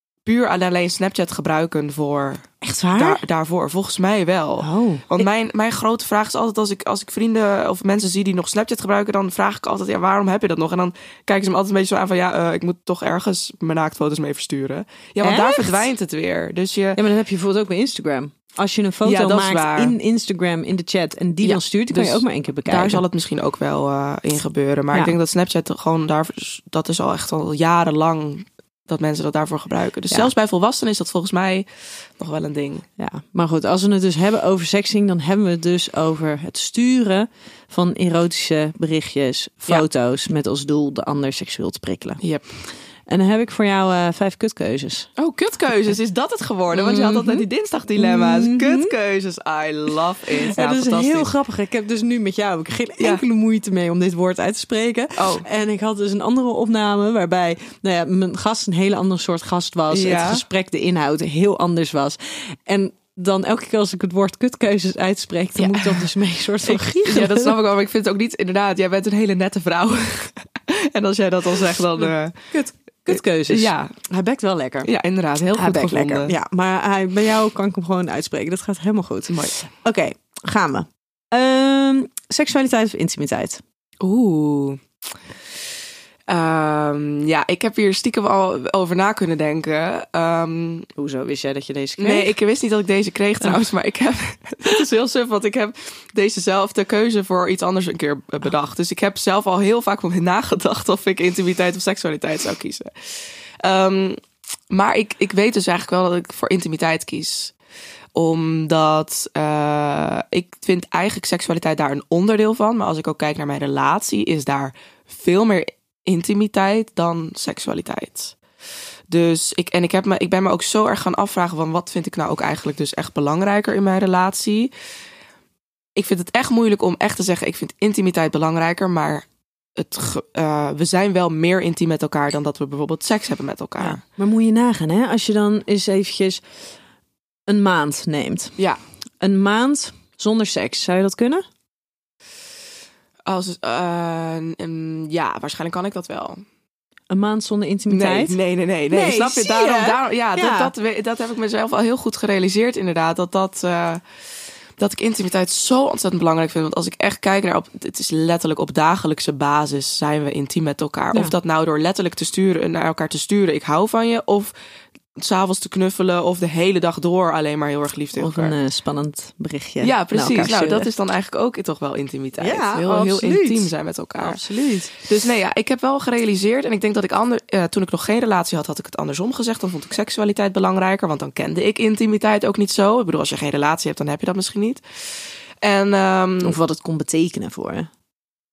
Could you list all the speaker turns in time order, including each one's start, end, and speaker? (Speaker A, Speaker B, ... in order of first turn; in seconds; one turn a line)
Speaker A: 0.2-17.0
Speaker B: 2.6-3.2
Speaker B: 4.6-5.2
Speaker B: 15.2-15.9
Speaker B: 17.0-23.0
Speaker A: 19.1-19.9
Speaker A: 21.4-32.9
Speaker B: 33.0-42.2
Speaker A: 42.2-42.5
Speaker B: 43.1-45.1
Speaker A: 45.2-51.3
Speaker B: 46.7-47.5
Speaker B: 48.0-48.9
Speaker B: 50.5-67.5
Speaker A: 55.2-55.5
Speaker A: 59.9-60.4
Speaker A: 65.6-66.1
Speaker A: 66.6-72.5
Speaker B: 72.0-74.9
Speaker A: 73.1-73.9
Speaker A: 74.8-76.3
Speaker B: 75.6-83.6
Speaker A: 79.3-79.5
Speaker A: 84.0-84.8
Speaker A: 86.3-90.9
Speaker B: 91.0-92.3
Speaker A: 92.0-104.2
Speaker A: 104.7-107.5
Speaker A: 108.1-118.4
Speaker A: 119.1-124.7
Speaker A: 126.0-134.0
Speaker B: 133.8-136.5
Speaker B: 137.5-138.6
Speaker B: 139.2-141.4
Speaker A: 143.3-146.4
Speaker B: 147.1-148.4
Speaker A: 147.9-154.0
Speaker B: 148.9-150.7
Speaker A: 154.8-164.6
Speaker A: 165.2-168.5
Speaker B: 168.2-170.9
Speaker A: 169.8-174.4
Speaker B: 172.4-175.0
Speaker A: 175.0-186.6
Speaker B: 186.4-187.9